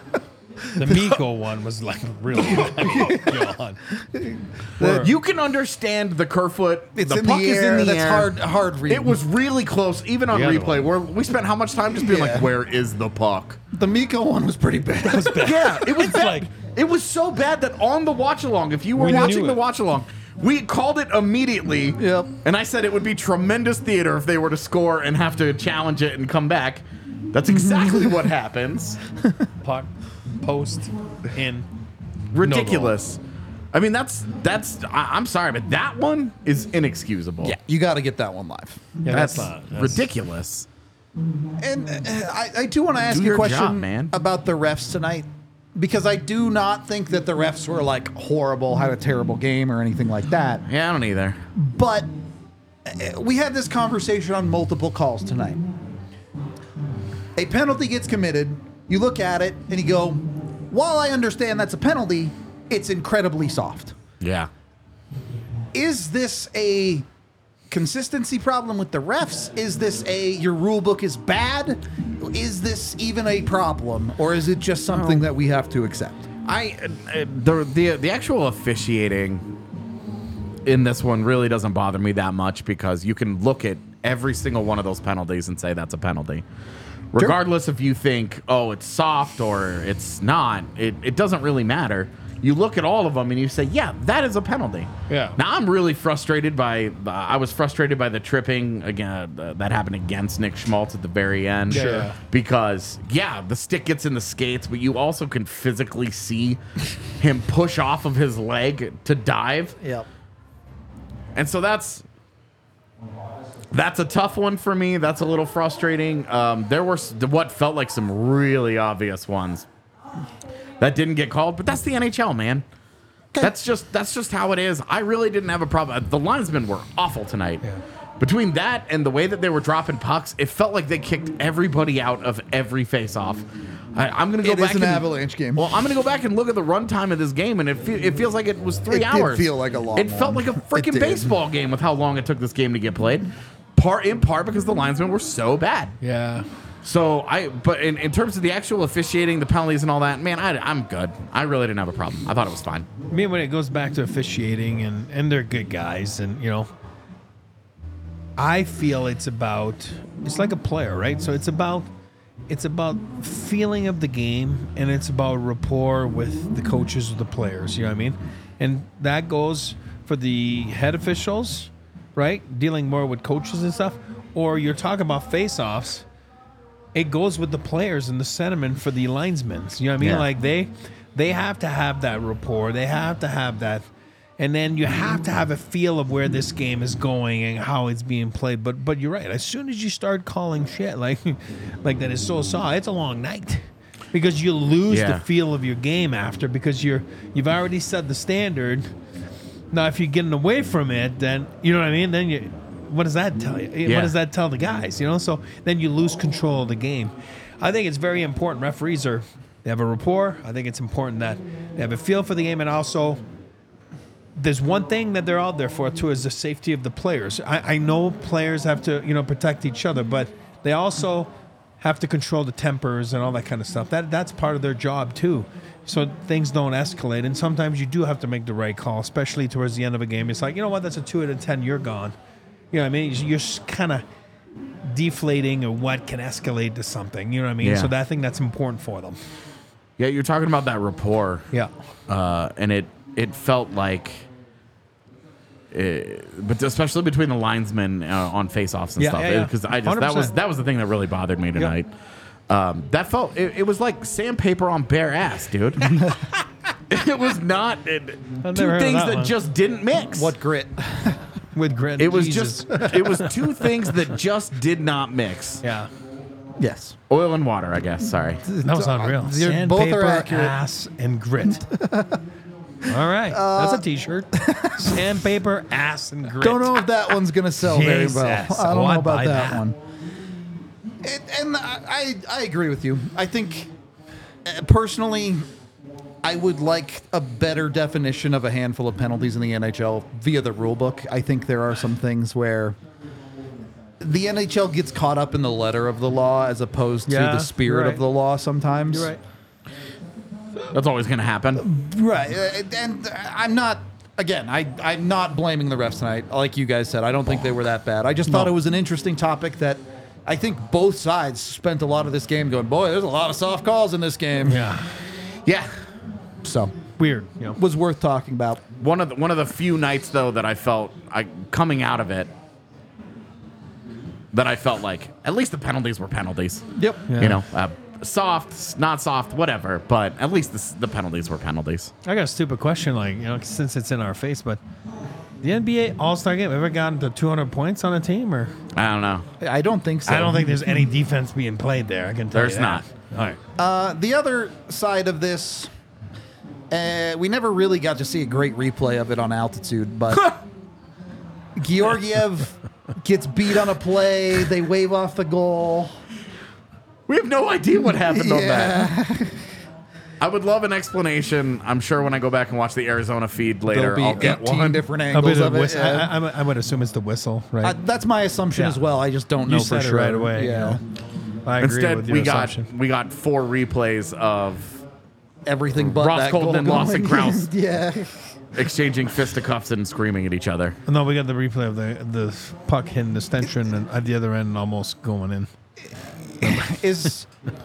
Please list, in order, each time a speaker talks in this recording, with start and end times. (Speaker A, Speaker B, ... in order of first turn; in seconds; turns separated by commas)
Speaker A: 0.6-1.2, Speaker B: 0.7-3.8, Speaker A: 2.4-5.1, Speaker B: 4.8-5.1, Speaker C: 5.0-8.3, Speaker A: 6.9-9.2, Speaker C: 8.9-13.6, Speaker B: 10.3-10.8, Speaker A: 11.9-12.5, Speaker A: 13.7-16.2, Speaker B: 15.1-16.5, Speaker C: 15.4-29.0, Speaker B: 19.0-19.6, Speaker A: 22.0-22.3, Speaker A: 27.5-28.2, Speaker A: 29.2-29.5, Speaker B: 29.6-31.7, Speaker C: 32.3-33.2, Speaker B: 32.4-32.9, Speaker C: 33.7-37.5, Speaker A: 37.4-39.0, Speaker B: 39.0-40.0, Speaker C: 39.1-40.7, Speaker A: 41.6-50.6, Speaker C: 43.1-44.1, Speaker C: 50.6-51.4, Speaker A: 51.5-52.1, Speaker A: 52.8-55.6, Speaker A: 57.4-64.0, Speaker C: 64.2-64.5, Speaker A: 65.7-67.0, Speaker A: 67.7-76.3, Speaker C: 74.9-75.2, Speaker C: 76.4-79.5, Speaker C: 80.6-86.4, Speaker C: 87.1-106.6, Speaker B: 95.1-95.3, Speaker B: 101.7-102.2, Speaker C: 107.2-109.8, Speaker C: 111.3-112.0, Speaker C: 113.7-119.7, Speaker C: 120.8-122.6, Speaker C: 123.4-127.6, Speaker C: 128.2-145.9, Speaker A: 134.4-135.7, Speaker A: 138.9-141.3, Speaker B: 146.0-146.4, Speaker C: 146.8-152.9, Speaker B: 153.1-156.7, Speaker B: 158.4-161.9, Speaker B: 162.5-176.0, Speaker B: 176.9-183.8, Speaker C: 180.0-180.2, Speaker B: 184.4-198.9, Speaker C: 194.9-195.2, Speaker B: 199.7-213.2, Speaker C: 203.8-204.1, Speaker B: 214.3-221.3, Speaker B: 221.8-232.1, Speaker B: 232.7-234.0, Speaker B: 234.9-239.2, Speaker C: 237.6-237.9, Speaker C: 240.0-241.5, Speaker C: 242.1-244.3, Speaker C: 245.7-251.9, Speaker B: 249.0-250.3, Speaker C: 252.5-256.1, Speaker A: 255.8-256.4, Speaker C: 256.9-260.3, Speaker B: 258.4-259.3, Speaker A: 260.1-261.3, Speaker B: 261.5-263.9, Speaker C: 262.0-265.6, Speaker B: 265.6-265.9, Speaker A: 266.6-267.0, Speaker C: 267.1-268.4, Speaker A: 268.4-270.6, Speaker B: 268.6-271.6, Speaker A: 271.5-272.2, Speaker B: 272.9-276.8, Speaker A: 272.9-275.0, Speaker A: 276.4-279.8, Speaker B: 277.6-279.6, Speaker A: 281.0-283.7, Speaker A: 284.4-285.4, Speaker A: 286.2-292.8, Speaker A: 294.0-299.1, Speaker B: 297.1-298.0, Speaker B: 298.9-299.2, Speaker C: 300.7-301.6, Speaker A: 301.6-314.7, Speaker B: 314.4-314.9, Speaker C: 315.4-315.7, Speaker A: 316.4-316.7, Speaker B: 317.0-317.6, Speaker A: 317.6-318.6, Speaker C: 318.8-322.3, Speaker C: 324.3-326.7, Speaker A: 326.8-327.0, Speaker B: 327.1-327.4, Speaker C: 327.2-331.9, Speaker B: 332.0-334.6, Speaker B: 335.4-338.5, Speaker C: 338.7-339.2, Speaker A: 339.4-340.5, Speaker B: 340.1-343.4, Speaker C: 342.3-342.8, Speaker A: 343.6-345.7, Speaker A: 346.7-350.3, Speaker A: 351.6-356.0, Speaker C: 357.1-358.9, Speaker A: 358.1-359.5, Speaker C: 360.2-364.8, Speaker A: 363.7-366.1, Speaker B: 365.1-367.8, Speaker A: 367.6-370.8, Speaker B: 368.5-368.8, Speaker B: 369.4-370.8, Speaker B: 371.4-372.7, Speaker C: 371.6-374.8, Speaker A: 375.4-378.2, Speaker C: 375.8-377.5, Speaker C: 378.5-380.8, Speaker B: 380.9-385.5, Speaker A: 386.4-387.3, Speaker B: 386.4-386.8